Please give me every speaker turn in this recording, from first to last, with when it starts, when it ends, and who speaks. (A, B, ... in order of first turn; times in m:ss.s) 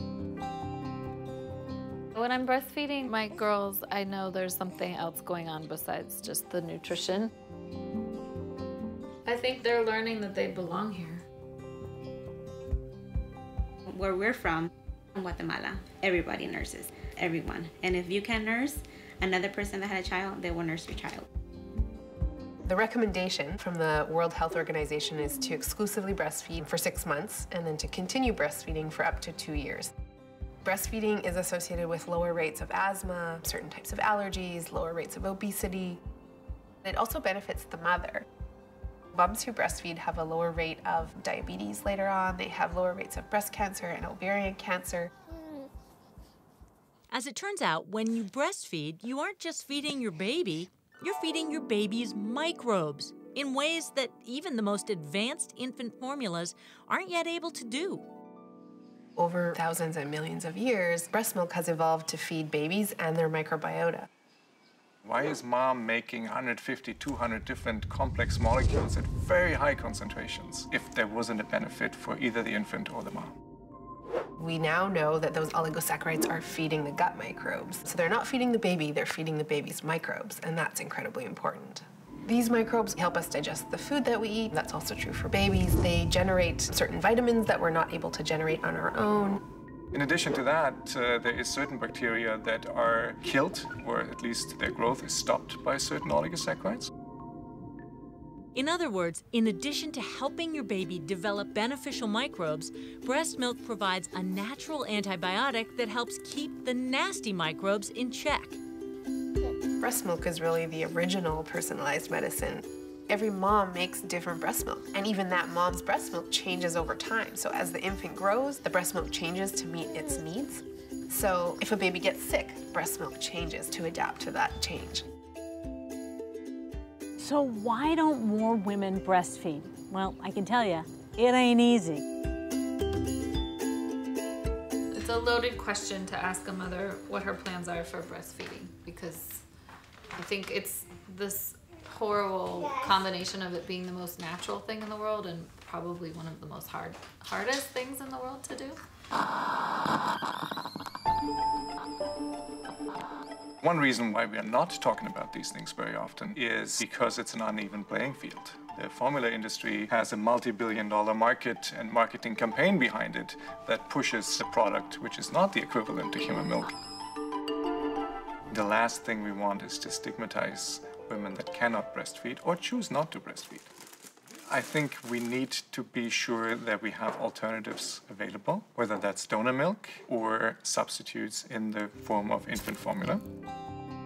0:02.1-0:07.3 A
0:09.2-0:11.2 A
0:13.8-0:21.3 B
0:22.6-0:29.9 C
0:30.6-0:36.0 C
0:36.8-0:38.2 C
0:39.1-0:45.1 C
0:47.1-0:58.0 D
0:59.2-1:04.1 C
1:05.0-1:13.3 E
1:14.4-1:29.4 C
1:29.9-1:36.9 E
1:38.5-1:48.6 D
1:49.8-2:05.0 C
2:07.2-2:12.0 F
2:14.9-2:19.4 A
2:20.1-2:28.8 A
2:33.6-2:46.7 E
2:48.5-2:53.7 E
2:54.5-3:03.2 E